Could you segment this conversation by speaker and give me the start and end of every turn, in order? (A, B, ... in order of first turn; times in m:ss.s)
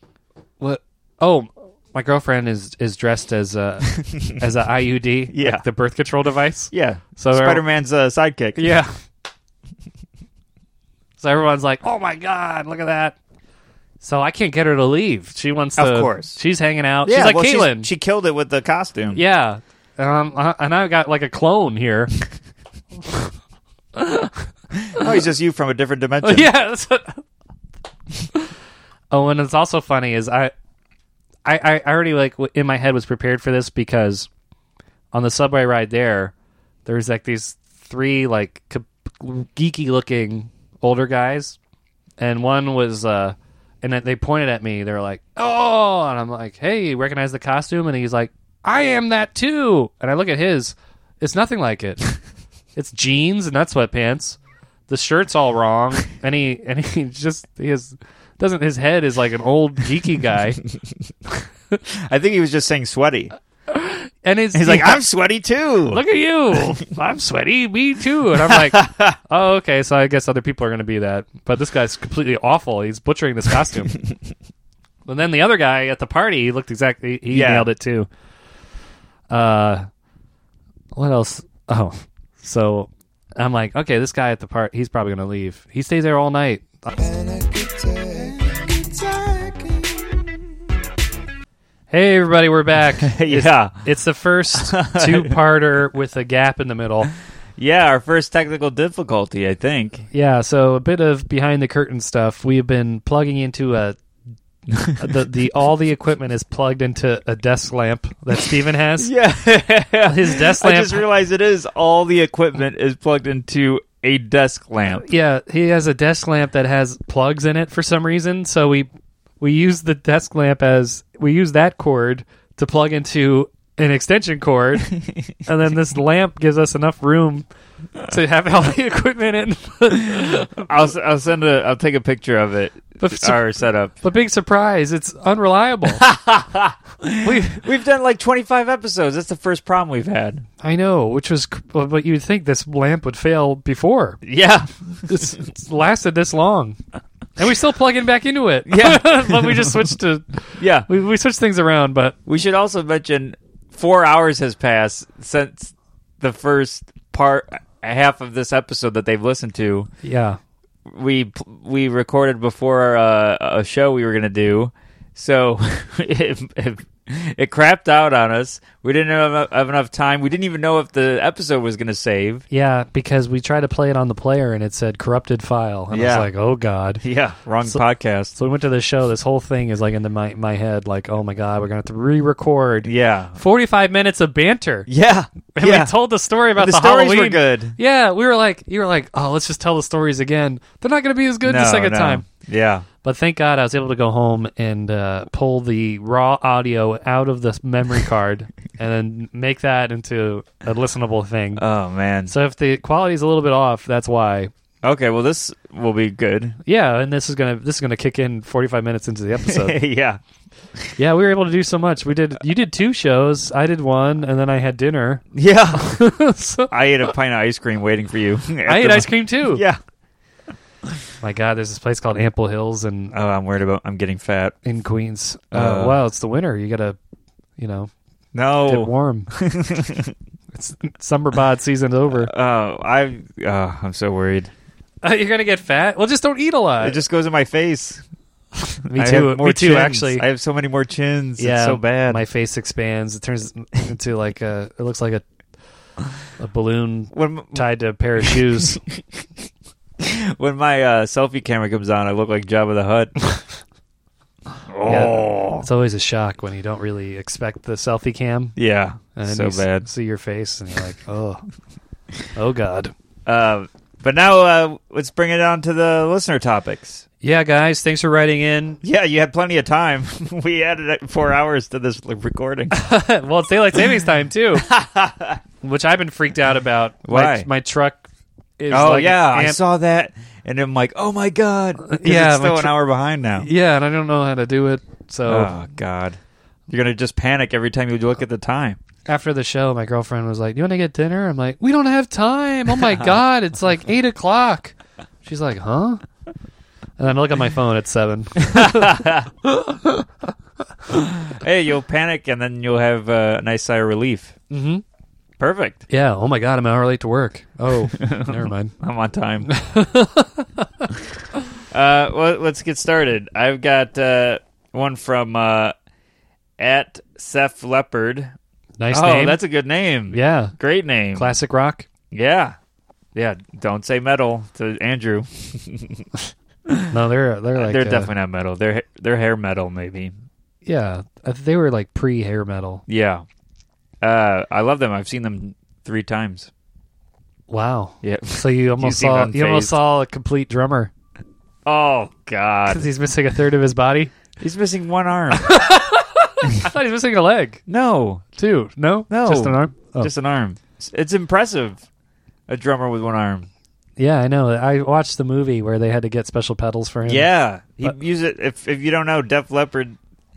0:00.6-0:07.6 A
0:05.3-0:05.6 B
0:06.7-0:08.7 B
0:08.6-0:08.9 A
0:11.2-0:13.2 A
0:14.0-0:17.9 A
0:15.8-0:16.4 B
0:17.0-0:19.2 B
0:19.1-0:22.1 A
0:24.0-0:24.4 A
0:24.8-0:26.5 B
0:26.2-0:27.2 A
0:29.1-0:30.5 A
0:31.4-0:34.3 A
0:35.1-0:36.3 A
0:36.8-0:41.6 A
0:42.2-0:52.1 A
0:52.7-1:00.6 A
1:01.9-1:03.3 B
1:03.7-1:05.0 A
1:04.5-1:06.0 B
1:05.9-1:13.9 A
1:08.4-1:09.2 B
1:15.1-1:18.1 A
1:17.3-1:17.7 B
1:19.3-1:19.9 A
1:20.9-1:26.9 A
1:27.0-1:29.6 C
1:31.9-1:37.1 A
1:33.0-1:33.8 B
1:34.5-1:35.4 B
1:37.6-1:40.0 B
1:40.1-1:44.0 A
1:44.8-1:45.1 B
1:45.0-1:49.1 A
1:49.0-1:55.0 B
1:50.1-1:51.0 A
1:55.0-1:58.9 A
1:59.4-2:07.4 A
2:08.0-2:10.7 A
2:10.6-2:14.0 B
2:13.0-2:13.4 A
2:14.0-2:16.0 A
2:15.9-2:20.4 B
2:17.2-2:17.6 A
2:20.6-2:24.2 A
2:24.2-2:25.3 B
2:25.1-2:26.8 A
2:27.4-2:32.2 A
2:28.7-2:29.8 B
2:30.6-2:30.9 B
2:32.2-2:39.9 B
2:40.0-2:40.4 A
2:40.8-2:52.4 B
2:52.5-2:57.0 A
2:55.9-2:56.3 B
2:57.0-2:58.3 B
2:58.3-3:04.9 A
3:02.8-3:03.4 B
3:04.9-3:05.9 B
3:05.5-3:12.2 A
3:06.6-3:07.8 B
3:11.4-3:12.8 B
3:13.0-3:21.6 A
3:21.6-3:22.3 B
3:22.3-3:24.5 A
3:24.8-3:26.6 B
3:26.6-3:29.7 A
3:29.4-3:30.2 B
3:31.0-3:35.2 A
3:35.3-3:36.0 B
3:35.7-3:36.7 A
3:36.7-3:39.8 B
3:38.6-3:39.6 A
3:41.2-3:43.1 A
3:43.1-3:44.6 B
3:44.6-3:47.0 A
3:45.5-3:46.0 B
3:47.6-3:47.9 A
3:48.3-3:50.1 B
3:48.6-3:49.3 A
3:50.5-3:52.3 A
3:52.1-3:54.5 B
3:55.0-3:57.0 A
3:56.8-3:58.0 B
3:58.6-4:02.2 B
3:58.9-4:00.2 A
4:01.4-4:05.2 A
4:06.4-4:08.8 A
4:07.1-4:07.6 B
4:08.2-4:09.0 B
4:10.0-4:13.1 B
4:14.7-4:15.6 B
4:14.8-4:18.5 A
4:18.6-4:19.9 B
4:19.1-4:21.4 A
4:22.3-4:22.9 A
4:23.2-4:27.0 B
4:27.2-4:28.8 A
4:28.8-4:32.8 B
4:32.7-4:34.7 A
4:34.6-4:35.4 B
4:35.6-4:38.0 A
4:37.0-4:37.5 B
4:38.6-4:39.6 A
4:38.7-4:43.5 B
4:41.8-4:42.7 A
4:43.4-4:45.5 A
4:45.3-4:48.8 B
4:49.1-4:56.0 A
4:57.0-5:00.0 A
4:58.4-4:59.3 B
5:00.9-5:04.3 B
5:04.5-5:04.8 A
5:05.4-5:05.8 B
5:05.9-5:08.7 A
5:07.9-5:09.5 B
5:09.4-5:10.9 A
5:11.7-5:15.7 B
5:16.6-5:18.3 B
5:18.8-5:19.4 A
5:18.9-5:21.3 B
5:20.1-5:20.5 A
5:21.1-5:21.8 A
5:22.1-5:22.6 B
5:23.1-5:26.0 B
5:26.9-5:28.1 A
5:27.6-5:30.1 B
5:30.6-5:32.8 A
5:32.9-5:33.2 B
5:34.0-5:36.5 B
5:37.5-5:40.9 A
5:38.0-5:39.8 B
5:41.6-5:42.8 B
5:42.7-5:44.1 A
5:44.4-5:45.6 B
5:45.3-5:47.6 A
5:47.7-5:48.2 B
5:48.4-5:50.1 A
5:49.1-5:51.8 B
5:52.5-5:53.5 B
5:54.0-5:57.3 A
5:57.0-6:00.0 B